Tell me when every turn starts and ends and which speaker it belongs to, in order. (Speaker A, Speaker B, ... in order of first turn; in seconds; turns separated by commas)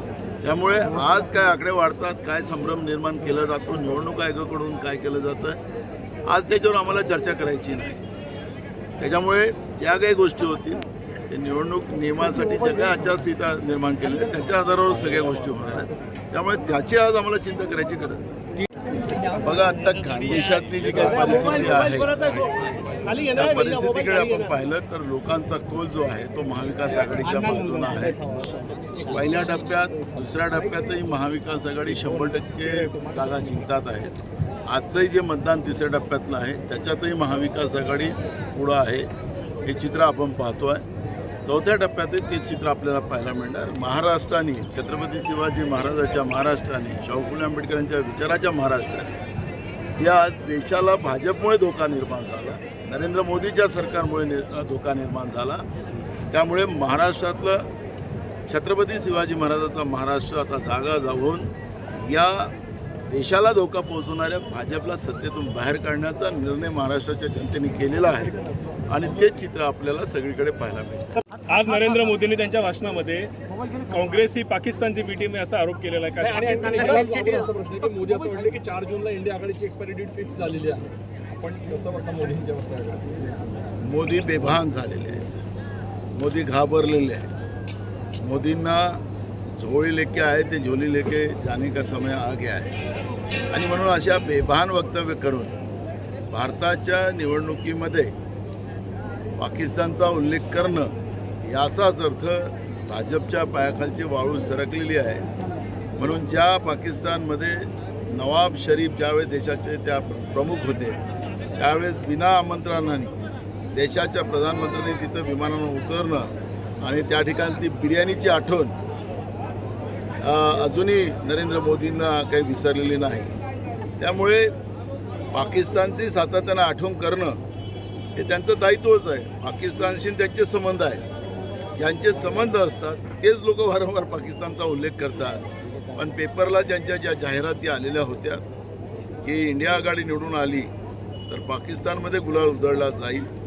Speaker A: 0.4-5.6, Speaker A: 6.2-8.0, Speaker A: 9.0-18.4, Speaker B: 19.0-19.5, Speaker A: 19.3-22.2, Speaker C: 20.8-24.5, Speaker B: 20.9-21.9, Speaker A: 23.3-28.2, Speaker B: 28.9-29.5, Speaker A: 29.0-39.1, Speaker A: 39.6-40.8, Speaker A: 41.4-49.2, Speaker A: 50.0-55.7, Speaker A: 56.3-57.7, Speaker A: 58.5-62.5, Speaker A: 63.1-68.3, Speaker A: 68.9-71.2, Speaker C: 71.5-73.3, Speaker C: 73.8-77.3, Speaker B: 76.2-83.3, Speaker A: 83.8-85.4, Speaker A: 86.1-87.3, Speaker A: 88.2-89.0, Speaker A: 89.6-92.8, Speaker A: 93.5-95.5, Speaker A: 96.3-98.1, Speaker A: 99.4-105.2, Speaker A: 106.0-111.0, Speaker A: 111.6-113.1, Speaker A: 113.7-118.8, Speaker A: 120.2-123.3, Speaker A: 124.0-124.5, Speaker A: 125.3-127.4, Speaker A: 128.1-131.0, Speaker A: 131.8-138.4, Speaker A: 139.2-140.7, Speaker A: 141.3-143.3